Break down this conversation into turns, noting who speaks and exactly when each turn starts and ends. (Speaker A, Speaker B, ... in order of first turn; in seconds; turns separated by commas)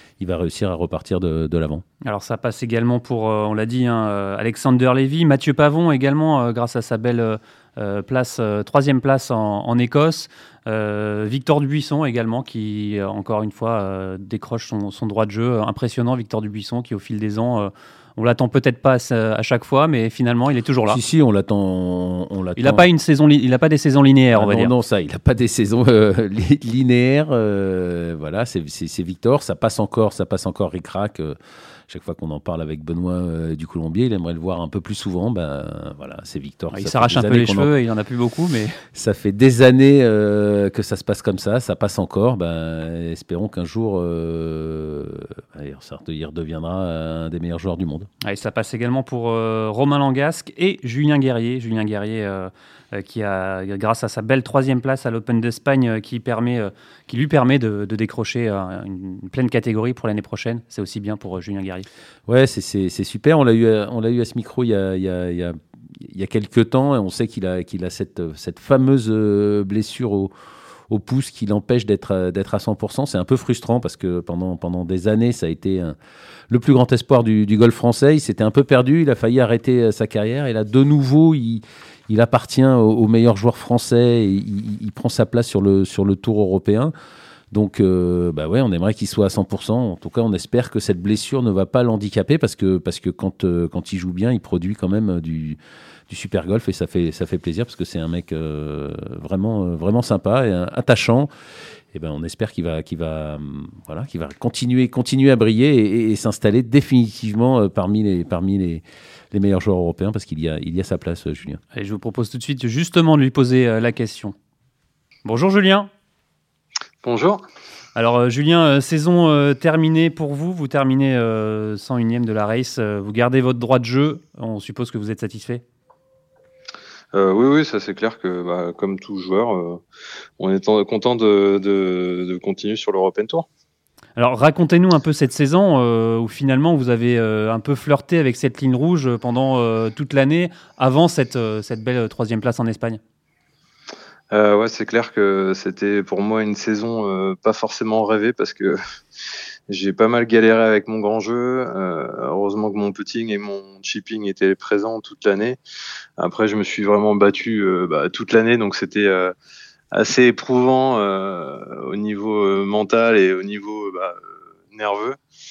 Speaker A: 0.2-1.8, Speaker B: 2.0-21.0, Speaker A: 20.9-22.9, Speaker B: 22.6-24.7, Speaker A: 24.4-31.4, Speaker A: 31.9-37.7, Speaker B: 36.7-38.8, Speaker A: 39.0-48.1, Speaker B: 48.2-61.9, Speaker A: 62.3-70.3, Speaker A: 70.9-76.0, Speaker A: 76.5-86.9, Speaker A: 87.5-95.6, Speaker A: 96.1-101.3, Speaker A: 101.9-111.6, Speaker B: 111.7-114.3, Speaker B: 115.2-115.9, Speaker C: 117.0-117.4, Speaker B: 118.0-125.6, Speaker C: 127.1-129.8, Speaker C: 130.4-133.5, Speaker B: 134.2-143.0, Speaker C: 144.3-148.8, Speaker C: 149.7-155.6, Speaker C: 156.2-159.3, Speaker C: 159.9-165.2